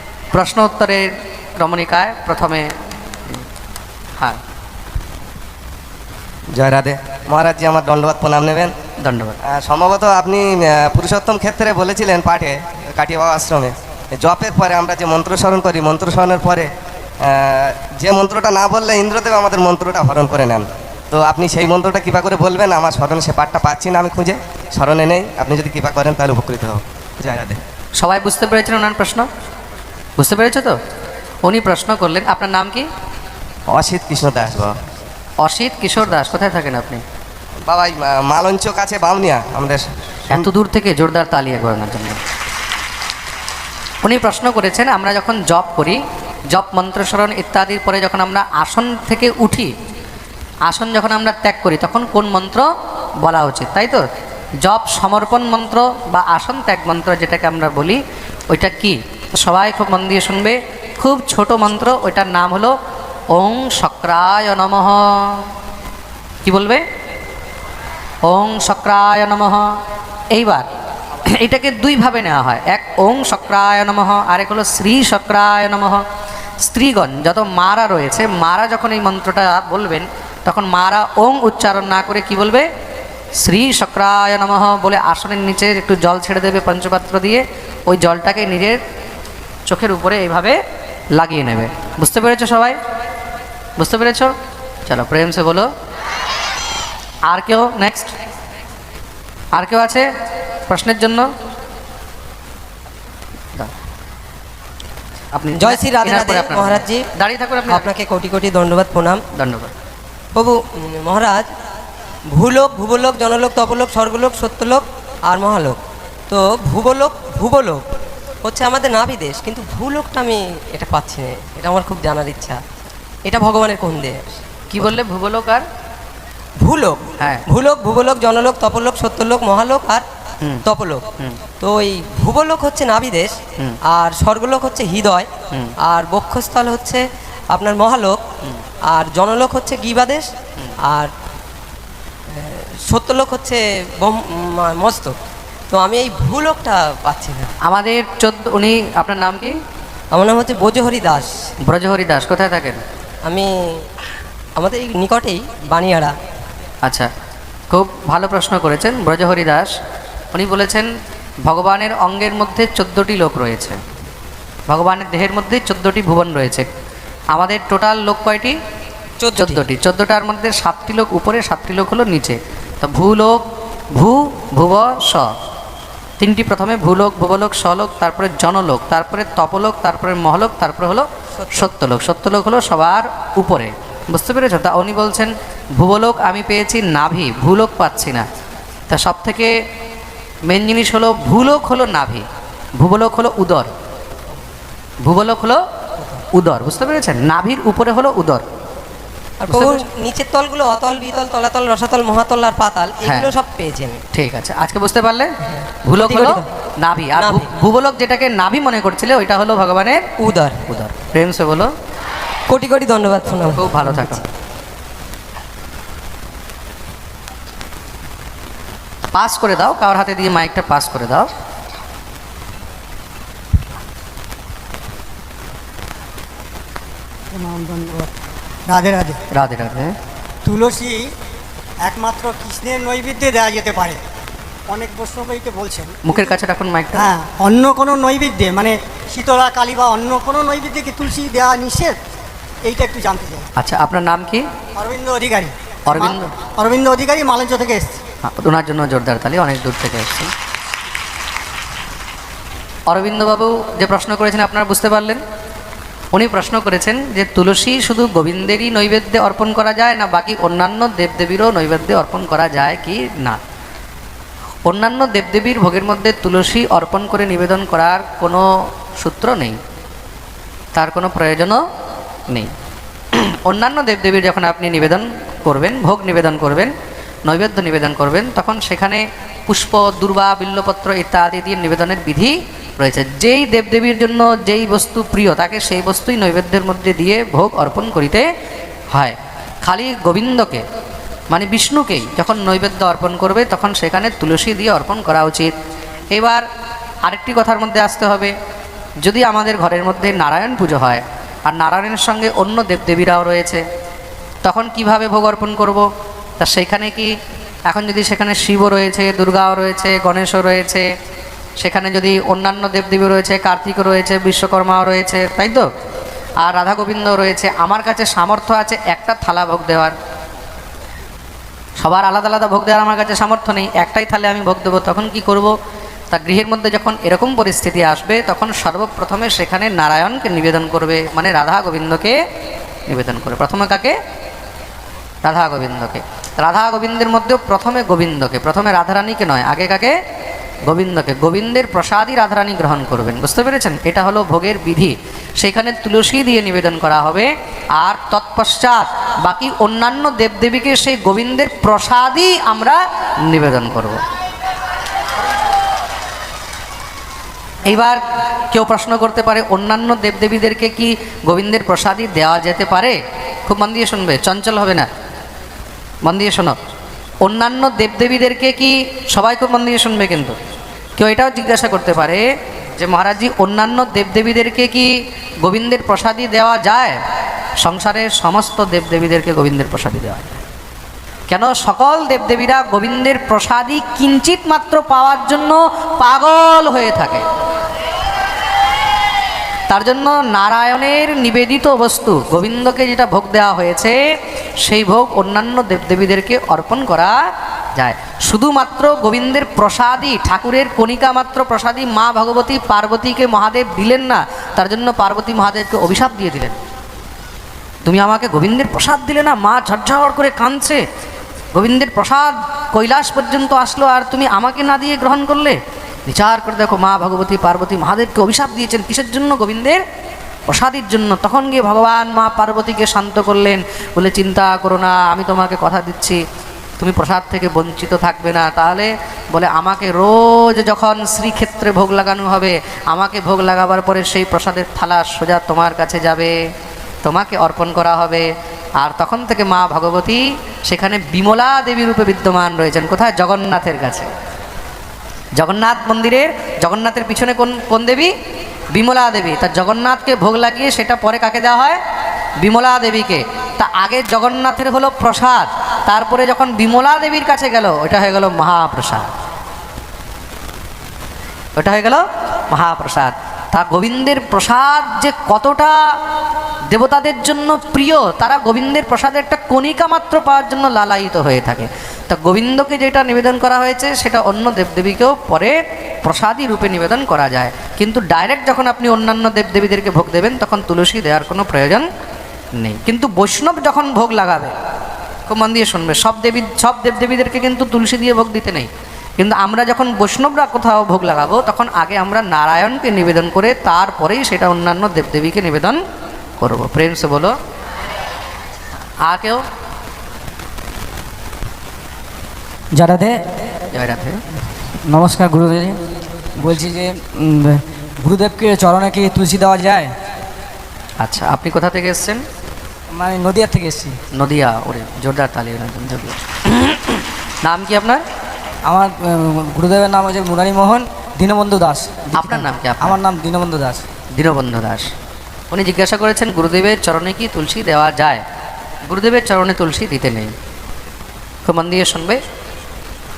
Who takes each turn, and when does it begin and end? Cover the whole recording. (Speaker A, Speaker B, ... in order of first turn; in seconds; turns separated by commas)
Speaker A: 0.3-2.7, Speaker B: 6.5-8.7, Speaker A: 9.0-9.4, Speaker B: 9.4-16.7, Speaker B: 17.2-27.6, Speaker A: 28.0-29.3, Speaker A: 30.2-30.8, Speaker A: 31.4-32.9, Speaker B: 33.7-34.8, Speaker A: 35.4-37.0, Speaker B: 37.7-40.5, Speaker A: 40.3-42.2, Speaker A: 44.0-49.7, Speaker A: 50.6-52.7, Speaker A: 53.2-54.0, Speaker A: 54.6-62.7, Speaker A: 63.3-65.5, Speaker A: 66.4-66.8, Speaker A: 68.2-69.7, Speaker A: 70.3-70.7, Speaker A: 71.3-76.0, Speaker A: 76.6-82.7, Speaker A: 83.4-88.8, Speaker A: 89.7-90.6, Speaker A: 91.2-92.8, Speaker A: 93.8-94.3, Speaker A: 94.9-95.7, Speaker A: 97.3-98.1, Speaker A: 99.5-100.1, Speaker A: 100.7-101.3, Speaker A: 105.3-107.9, Speaker C: 105.6-107.0, Speaker C: 107.7-109.2, Speaker A: 109.3-109.7, Speaker C: 110.3-111.5, Speaker C: 112.3-117.8, Speaker C: 118.4-122.6, Speaker C: 123.2-124.9, Speaker A: 124.7-125.6, Speaker C: 126.6-130.0, Speaker A: 127.2-127.4, Speaker C: 130.6-131.1, Speaker C: 131.6-135.3, Speaker C: 135.8-138.2, Speaker C: 138.9-140.3, Speaker C: 140.8-141.1, Speaker C: 142.3-145.1, Speaker C: 145.7-147.5, Speaker A: 147.6-149.5, Speaker C: 150.1-151.4, Speaker A: 151.7-152.8, Speaker C: 153.2-153.5, Speaker C: 154.6-156.1, Speaker A: 156.8-157.1, Speaker A: 157.7-159.7, Speaker A: 160.3-160.9, Speaker A: 161.4-163.8, Speaker A: 164.7-166.7, Speaker A: 167.3-168.6, Speaker C: 169.2-169.6, Speaker A: 169.3-173.4, Speaker A: 173.9-175.3, Speaker A: 176.2-188.2, Speaker C: 181.4-181.7, Speaker A: 188.9-189.5, Speaker A: 190.5-192.2, Speaker A: 192.8-193.7, Speaker A: 195.0-195.6, Speaker A: 196.3-198.4, Speaker C: 199.4-204.0, Speaker A: 199.5-199.8, Speaker A: 203.0-203.3, Speaker A: 204.1-205.3, Speaker A: 205.8-210.0, Speaker C: 206.0-206.5, Speaker C: 207.1-207.5, Speaker C: 210.2-210.6, Speaker A: 210.7-211.7, Speaker C: 212.5-214.2, Speaker A: 213.6-214.2, Speaker A: 219.1-221.3, Speaker D: 227.3-228.1, Speaker D: 228.7-229.2, Speaker A: 229.3-229.9, Speaker D: 230.4-231.1, Speaker D: 231.8-234.0, Speaker D: 234.7-236.3, Speaker A: 236.0-237.1, Speaker D: 236.9-242.0, Speaker D: 242.6-243.5, Speaker A: 243.6-244.4, Speaker D: 244.8-248.0, Speaker A: 245.9-246.3, Speaker A: 248.2-250.3, Speaker A: 252.9-255.2, Speaker A: 256.1-263.4, Speaker A: 264.6-269.6, Speaker A: 270.7-271.6, Speaker A: 273.1-276.7, Speaker A: 277.2-288.2, Speaker A: 288.9-290.6, Speaker A: 291.3-295.5, Speaker A: 296.1-296.4, Speaker A: 297.0-298.3, Speaker A: 299.0-303.6, Speaker A: 304.4-305.9, Speaker A: 306.4-307.1, Speaker A: 307.7-310.9, Speaker A: 311.6-315.7, Speaker A: 316.4-319.9, Speaker A: 321.8-325.5, Speaker A: 326.1-332.2, Speaker A: 332.9-333.9, Speaker A: 335.2-339.9, Speaker A: 340.6-354.0, Speaker A: 357.6-364.9, Speaker A: 366.0-366.6, Speaker A: 367.2-370.4, Speaker A: 371.0-372.2, Speaker A: 372.8-377.0, Speaker A: 377.6-380.4, Speaker A: 381.3-387.2, Speaker A: 389.7-394.0, Speaker A: 394.6-397.1, Speaker A: 397.8-406.6, Speaker A: 407.8-410.8, Speaker A: 411.5-419.8, Speaker A: 420.5-426.2, Speaker A: 426.8-436.3, Speaker A: 437.0-438.3, Speaker A: 438.8-444.1, Speaker A: 445.4-448.1, Speaker A: 448.7-451.8, Speaker A: 452.4-459.1, Speaker A: 461.6-465.8, Speaker A: 466.7-481.9, Speaker A: 482.6-484.5, Speaker A: 485.3-495.8, Speaker A: 496.4-497.3, Speaker A: 499.0-499.4, Speaker E: 502.8-503.2, Speaker A: 503.7-504.2, Speaker E: 504.9-505.8, Speaker E: 506.4-509.9, Speaker A: 511.0-512.2, Speaker E: 512.9-514.0, Speaker A: 514.1-518.0, Speaker E: 518.6-523.9, Speaker A: 522.1-523.0, Speaker A: 524.1-524.9, Speaker A: 525.5-528.2, Speaker A: 528.9-530.3, Speaker A: 531.4-532.2